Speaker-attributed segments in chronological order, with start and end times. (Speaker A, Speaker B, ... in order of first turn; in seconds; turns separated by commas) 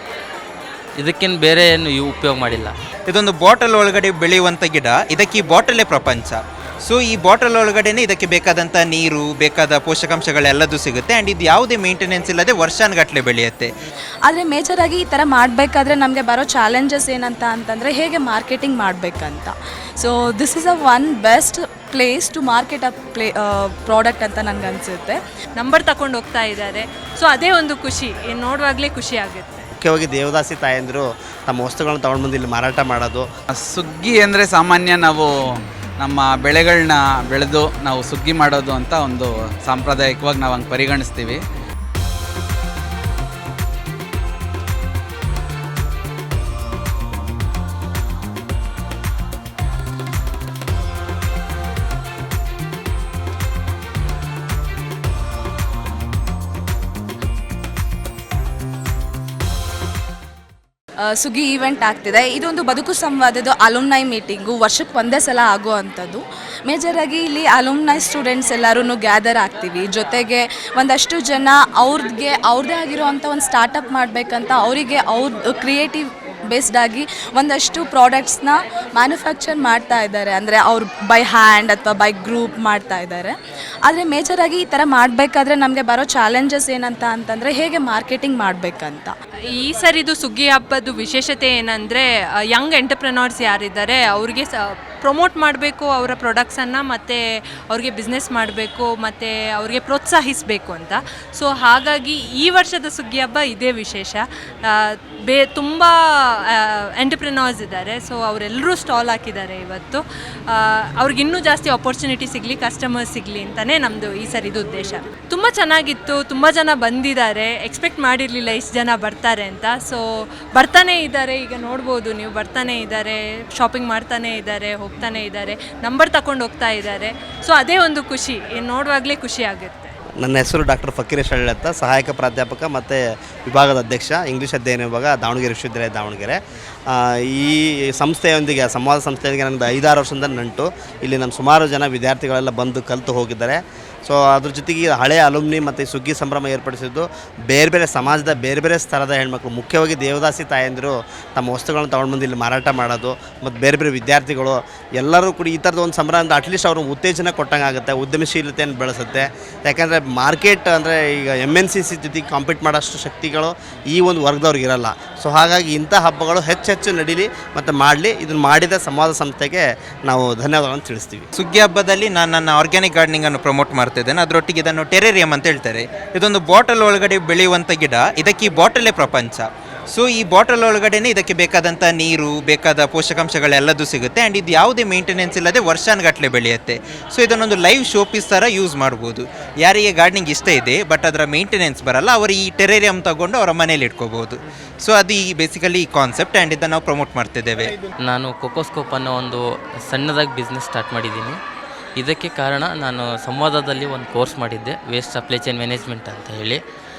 Speaker A: 1.0-2.7, Speaker B: 3.1-13.7, Speaker C: 14.3-25.2, Speaker D: 25.6-29.6, Speaker E: 29.8-33.3, Speaker F: 33.7-35.3, Speaker F: 36.0-41.4, Speaker C: 61.1-83.3, Speaker C: 83.8-89.1, Speaker D: 89.6-97.2, Speaker D: 97.7-105.9, Speaker D: 106.5-120.0, Speaker D: 120.5-129.9, Speaker E: 130.2-171.3, Speaker B: 171.3-197.7, Speaker A: 198.0-201.4, Speaker A: 202.0-206.6